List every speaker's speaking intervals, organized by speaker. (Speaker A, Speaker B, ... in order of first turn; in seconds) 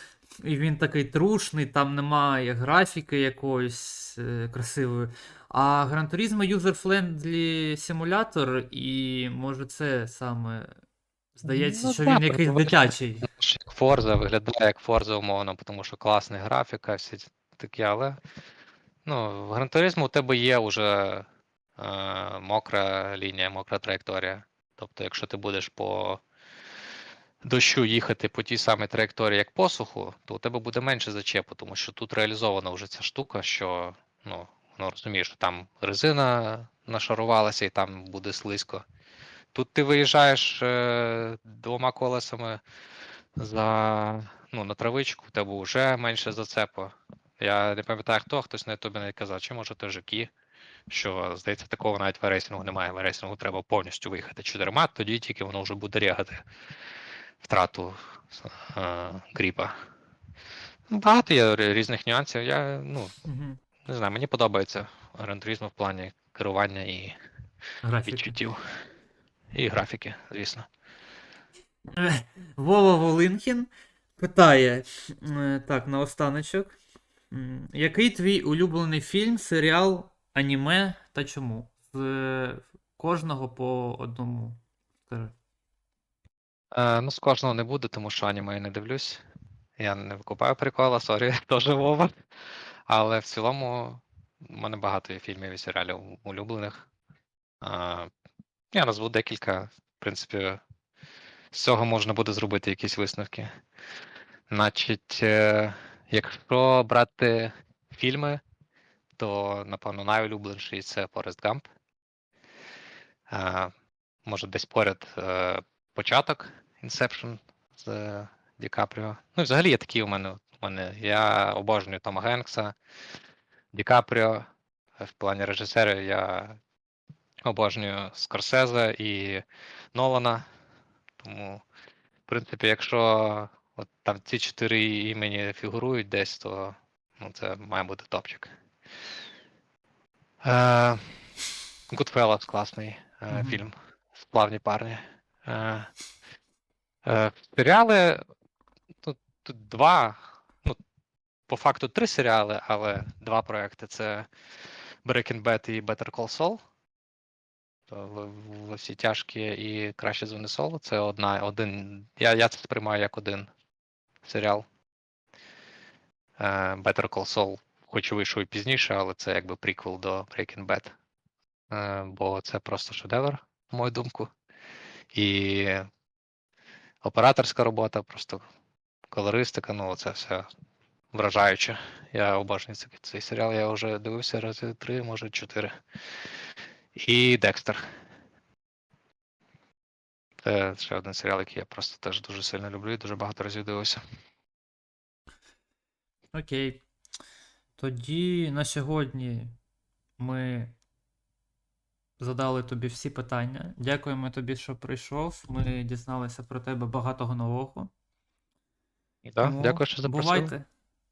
Speaker A: 0.4-10.8, 11.4-13.3, 63.2-63.6, 67.8-68.4, 71.9-76.8, 77.3-85.3, 143.3-143.6, 196.3-196.8, 197.8-199.6, 200.2-200.8, 202.2-207.9, 209.4-210.7
Speaker B: 11.4-18.2, 19.1-21.3, 21.8-26.2, 27.4-38.9, 39.5-42.6, 43.4-50.3, 50.9-56.4, 57.4-59.8, 60.9-63.1, 63.9-67.2, 68.0-68.6, 69.5-70.7, 86.7-89.2, 89.8-92.1, 92.9-96.9, 97.6-98.1, 98.7-100.6, 101.5-103.5, 104.5-108.4, 109.2-111.7, 113.3-113.7, 114.2-122.8, 123.7-124.5, 125.0-126.6, 127.4-130.4, 131.2-131.6, 132.3-138.5, 140.4-141.2, 141.9-145.9, 147.1-148.2, 149.0-150.8, 151.5-154.3, 155.1-156.6, 157.9-163.5, 164.2-164.7, 166.4-170.9, 171.7-174.3, 175.1-175.9, 177.0-178.4, 179.1-180.5, 181.1-185.7, 187.0-187.8, 190.4-194.0, 209.3-210.5